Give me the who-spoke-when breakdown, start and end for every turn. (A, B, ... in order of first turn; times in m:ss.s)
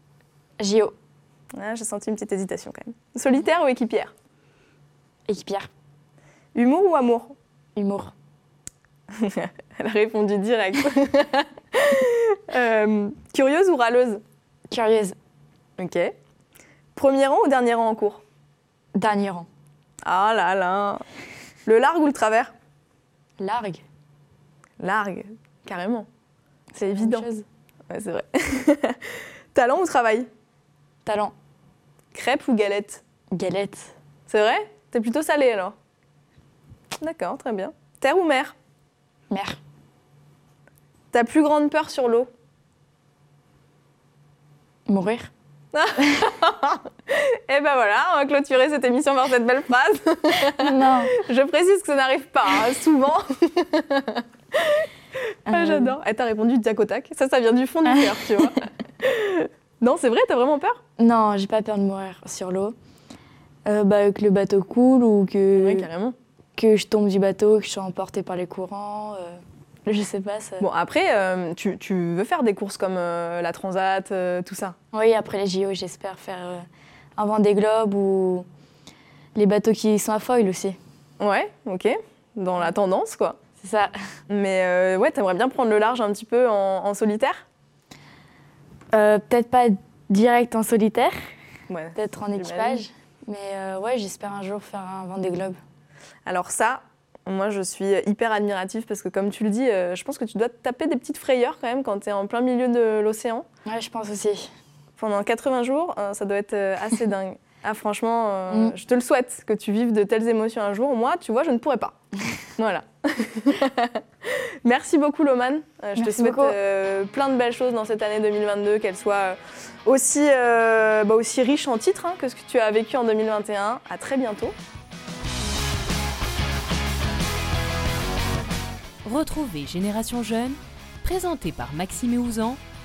0:00.6-0:00.9 A
0:01.5-0:04.1 B
0:05.3-0:05.7 A
0:06.5-0:07.3 B
0:07.8-0:08.1 A
0:09.1-0:14.2 B
0:14.7-0:15.2 A
0:15.8-0:16.1 B
0:16.9-0:18.2 B
0:18.9-0:19.5 A
0:20.0-0:21.0 B
0:21.6-0:22.5 B
0:23.4-0:23.8 A
0:24.8-0:26.1 B
0:26.7-0:27.4 A
0:26.9-0:27.3 B
0:27.9-0:30.3 B
0:31.0-0:31.3 A
0:32.1-0:33.0 B
0:33.3-0:33.9 A
0:34.3-0:35.8 B
0:37.0-0:38.5 B
0:39.3-0:39.6 A
0:41.1-0:42.3 B
0:44.9-0:45.3 A
0:45.7-1:00.8 B
0:50.6-0:51.2 A
0:55.5-0:55.9 A
0:57.9-0:58.2 A
1:01.0-1:02.7 A
1:03.6-1:05.8 A
1:05.5-1:06.2 B
1:06.6-1:10.6 A
1:10.6-1:14.8 B
1:14.9-1:16.6 A
1:17.2-1:18.4 A
1:19.3-1:20.8 A
1:21.2-1:23.4 B
1:23.6-1:23.9 A
1:24.3-1:27.4 B
1:28.9-1:31.2 A
1:31.7-1:32.8 B
1:31.9-1:35.6 A
1:36.2-1:43.4 B
1:43.6-1:44.5 A
1:45.0-1:52.0 B
1:48.5-1:48.8 A
1:52.6-2:04.6 B
1:56.0-1:56.6 A
2:09.0-2:12.6 C